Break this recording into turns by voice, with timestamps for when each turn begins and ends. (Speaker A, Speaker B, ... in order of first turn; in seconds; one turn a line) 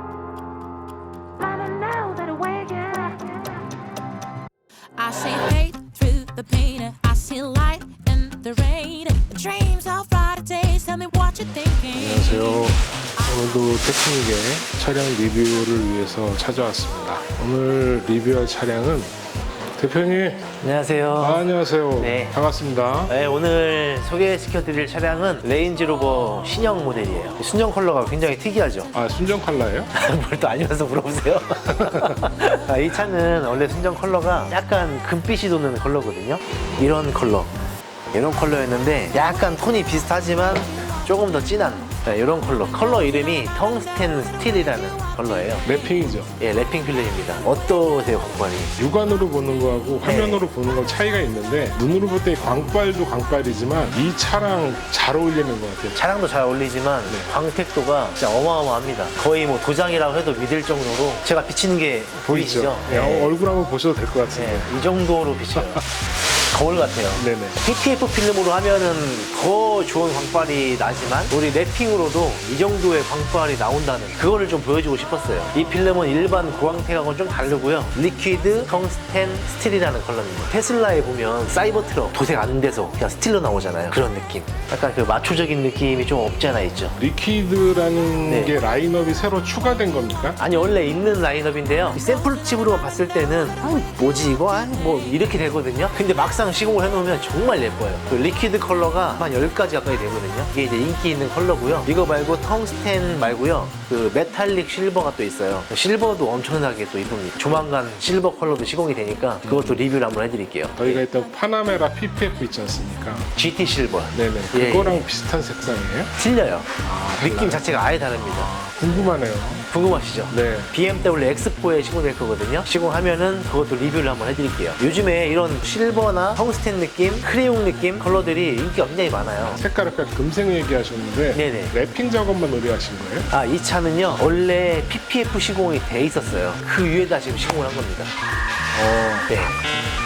Speaker A: 1.4-3.4
Speaker A: 4.9-12.6
Speaker B: 11.9-19.1
Speaker B: 19.7-20.4
Speaker C: 20.6-22.3
Speaker B: 21.2-23.1
Speaker C: 23.1-28.9
Speaker B: 28.9-29.9
Speaker C: 29.9-37.5
Speaker B: 31.8-32.1
Speaker C: 38.1-45.6
Speaker B: 45.6-46.3
Speaker C: 46.4-48.8
Speaker B: 48.8-56.0
Speaker C: 50.0-50.4
Speaker C: 55.9-63.3
Speaker B: 62.3-64.8
Speaker C: 64.3-87.0
Speaker B: 67.2-67.6
Speaker B: 87.0-90.4
Speaker C: 88.3-88.6
Speaker C: 90.4-111.0
Speaker B: 110.8-113.3
Speaker C: 113.3-115.0
Speaker B: 114.1-116.1
Speaker C: 116.1-119.1
Speaker B: 116.8-119.7
Speaker C: 119.7-129.6
Speaker B: 120.3-120.7
Speaker B: 129.4-133.3
Speaker C: 131.3-131.7
Speaker C: 133.3-138.1
Speaker B: 138.8-139.2
Speaker C: 139.2-139.6